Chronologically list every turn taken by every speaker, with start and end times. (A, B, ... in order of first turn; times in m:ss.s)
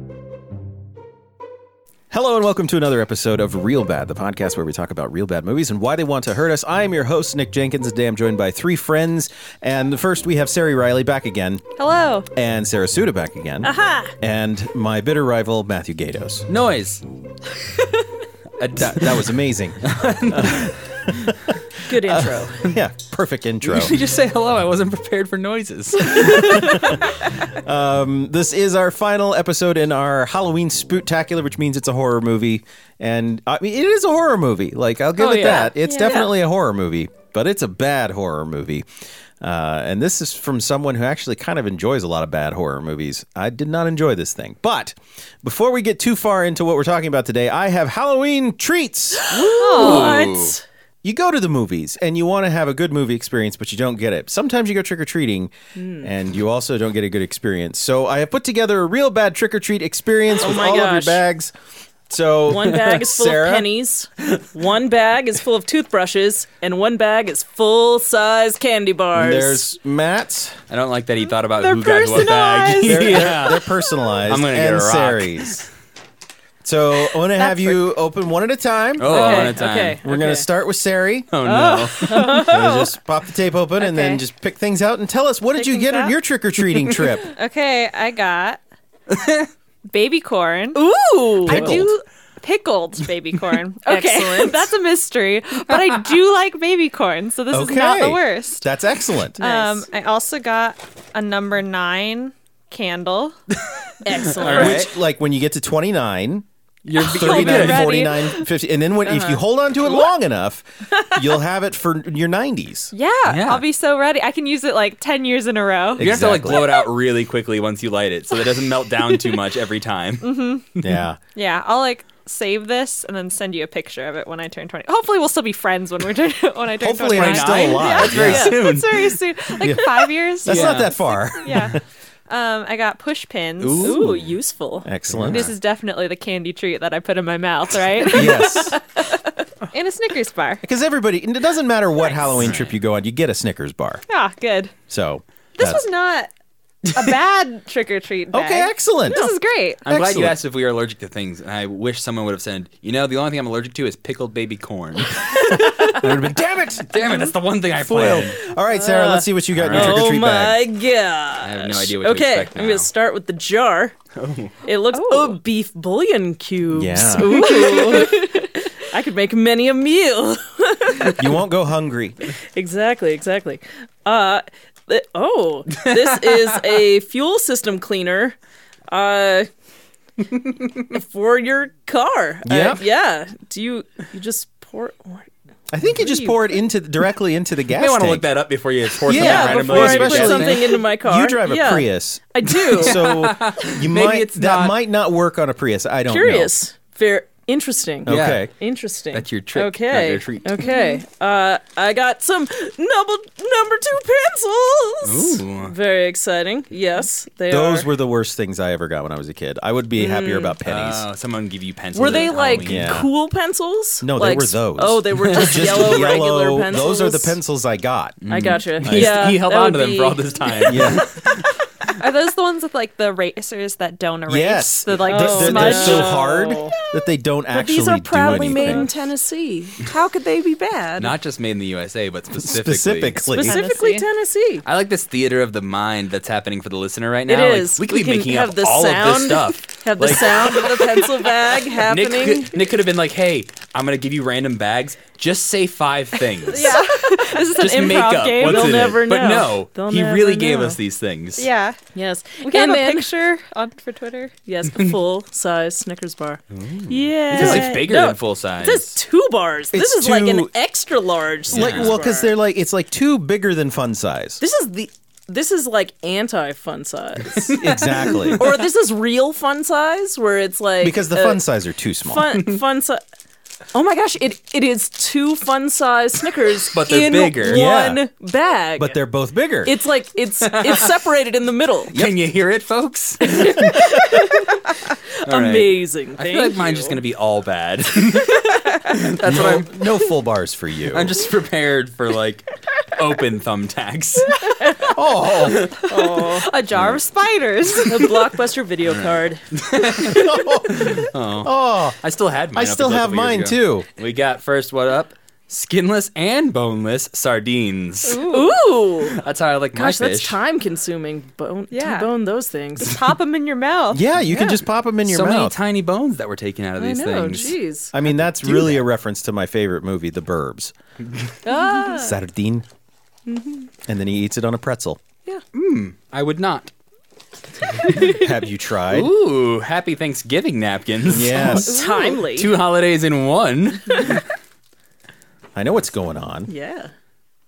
0:02.1-0:11.6 A
0:11.8-0:12.3 B
0:12.3-0:16.5 A
0:13.6-0:14.1 C
0:16.5-0:17.0 D
0:18.6-0:21.3 D
0:18.8-0:24.0 A
0:21.9-0:22.7 C
0:23.6-0:27.1 D
0:26.2-0:27.0 A
0:27.6-0:38.8 A
0:35.2-0:35.7 D
0:35.4-0:36.3 B
0:39.4-0:49.3 A
0:49.2-0:50.6 C
0:49.3-0:50.6 D
0:49.6-0:50.3 B
0:51.0-1:01.5 A
0:55.7-0:56.1 C
1:00.3-1:01.2 C
1:02.1-1:03.6 A
1:02.5-1:09.6 C
1:09.1-1:10.6 A
1:10.7-1:13.7 D
1:11.6-1:13.5 B
1:12.8-1:15.6 A
1:14.2-1:15.7 D
1:16.6-1:19.1 A
1:17.4-1:17.9 B
1:19.0-1:20.0 D
1:19.0-1:20.5 C
1:19.1-1:19.6 B
1:20.0-1:21.3 A
1:21.3-1:22.3 D
1:21.4-1:22.9 B
1:22.0-1:22.8 C
1:22.3-1:27.3 A
1:23.8-1:24.2 B
1:25.6-1:26.2 B
1:27.2-1:28.6 B
1:29.1-1:29.5 D
1:29.9-1:30.8 B
1:30.7-1:31.8 C
1:31.4-1:38.6 B
1:31.4-1:31.9 A
1:33.8-1:34.7 C
1:37.5-1:39.4 A
1:39.4-1:39.9 C
1:39.4-1:43.3 B
1:43.7-1:44.9 D
1:44.0-1:44.8 C
1:44.5-1:52.9 A
1:46.8-1:48.0 D
1:47.0-1:48.5 B
1:49.0-1:49.4 C
1:52.9-1:56.8 B
1:53.2-1:53.6 D
1:56.0-1:56.6 A
1:56.0-2:01.0 D
2:00.2-2:00.6 B
2:00.8-2:01.2 A
2:01.3-2:14.0 B
2:06.8-2:08.5 A
2:07.1-2:09.2 D
2:09.6-2:09.8 A
2:10.4-2:11.8 A
2:10.4-2:10.9 D
2:13.6-2:14.3 D
2:13.8-2:14.9 C
2:14.8-2:15.5 A
2:15.1-2:15.5 D
2:15.3-2:20.6 B
2:18.1-2:18.8 A
2:20.6-2:24.0 A
2:22.4-2:22.8 D
2:24.1-2:24.7 B
2:24.9-2:25.8 A
2:25.6-2:26.3 B
2:26.9-2:29.8 B
2:28.3-2:29.2 A
2:29.8-2:36.2 D
2:29.9-2:30.4 A
2:35.4-2:36.0 C
2:35.4-2:36.9 A
2:36.8-2:38.4 D
2:37.8-2:40.6 A
2:38.7-2:44.0 C
2:39.5-2:40.1 D
2:41.4-2:42.9 D
2:44.1-2:44.6 D
2:44.6-2:51.4 C
2:44.9-2:45.4 B
2:46.7-2:47.4 A
2:47.2-2:48.5 B
2:51.2-2:52.3 A
2:52.4-2:58.4 C
2:55.8-2:56.8 D
2:58.9-2:59.5 C
3:00.9-3:05.3 C
3:02.4-3:02.8 A
3:05.7-3:08.2 A
3:05.8-3:06.4 C
3:07.7-3:10.8 D
3:09.0-3:16.5 A
3:09.1-3:13.0 C
3:12.6-3:14.8 D
3:16.1-3:27.9 C
3:18.0-3:18.5 A
3:18.1-3:18.5 D
3:19.1-3:20.7 D
3:20.6-3:21.0 B
3:25.0-3:25.7 D
3:27.5-3:31.0 A
3:30.0-3:30.6 C
3:30.6-3:33.0 D
3:31.9-3:37.4 C
3:32.6-3:33.1 A
3:34.0-3:38.2 A
3:35.2-3:35.9 D
3:38.2-3:41.6 D
3:38.3-3:40.9 C
3:38.8-3:39.2 A
3:40.7-3:41.0 A
3:41.9-3:46.2 B
3:44.3-3:48.9 A
3:44.9-3:46.8 C
3:47.5-3:51.1 C
3:48.5-3:48.9 B
3:51.0-3:53.2 D
3:52.4-3:53.6 A
3:53.3-3:54.6 C
3:53.4-3:54.1 B
3:54.6-4:01.1 D
3:57.3-4:02.6 C
4:01.7-4:06.8 D
4:06.5-4:08.9 B
4:07.4-4:11.5 D
4:08.4-4:10.8 C
4:11.4-4:11.8 B
4:11.9-4:13.1 C
4:12.4-4:14.3 B
4:14.4-4:22.3 C
4:16.6-4:17.7 A
4:17.3-4:19.0 D
4:19.7-4:20.5 A
4:21.5-4:22.0 D
4:21.5-4:24.4 A
4:24.4-4:27.7 C
4:27.2-4:28.6 D
4:27.6-4:28.4 A
4:28.4-4:31.4 C
4:30.8-4:32.3 A
4:32.0-4:33.0 C
4:33.7-4:39.0 C
4:36.6-4:37.6 D
4:37.4-4:38.0 A
4:38.8-4:39.7 A
4:39.6-4:41.9 C
4:40.4-4:41.0 D
4:41.9-4:43.9 D
4:43.2-4:44.6 C
4:45.2-4:49.8 D
4:45.3-4:47.0 C
4:49.2-4:51.1 A
4:50.9-4:54.4 D
4:54.6-4:54.9 C
4:54.9-4:55.7 A
4:55.5-4:55.8 D
4:55.8-4:58.3 B
4:55.9-4:56.5 C
4:56.7-4:57.0 D
4:57.8-4:59.4 C
4:58.8-5:08.2 D
5:00.0-5:02.0 A
5:02.5-5:03.9 A
5:08.0-5:08.6 B
5:08.2-5:09.2 C
5:09.0-5:10.4 D
5:09.7-5:13.0 C
5:11.7-5:12.1 B
5:12.8-5:14.0 B
5:13.9-5:15.6 A
5:15.0-5:17.6 D
5:16.8-5:18.8 C
5:17.9-5:20.7 A
5:21.4-5:22.1 C
5:21.5-5:22.1 B
5:22.0-5:22.6 A
5:23.2-5:23.7 C
5:23.9-5:25.0 A
5:25.5-5:26.7 D
5:28.0-5:29.1 A
5:28.9-5:34.2 D
5:31.1-5:31.8 A
5:31.5-5:32.5 C
5:35.5-5:36.5 A
5:36.5-5:36.9 C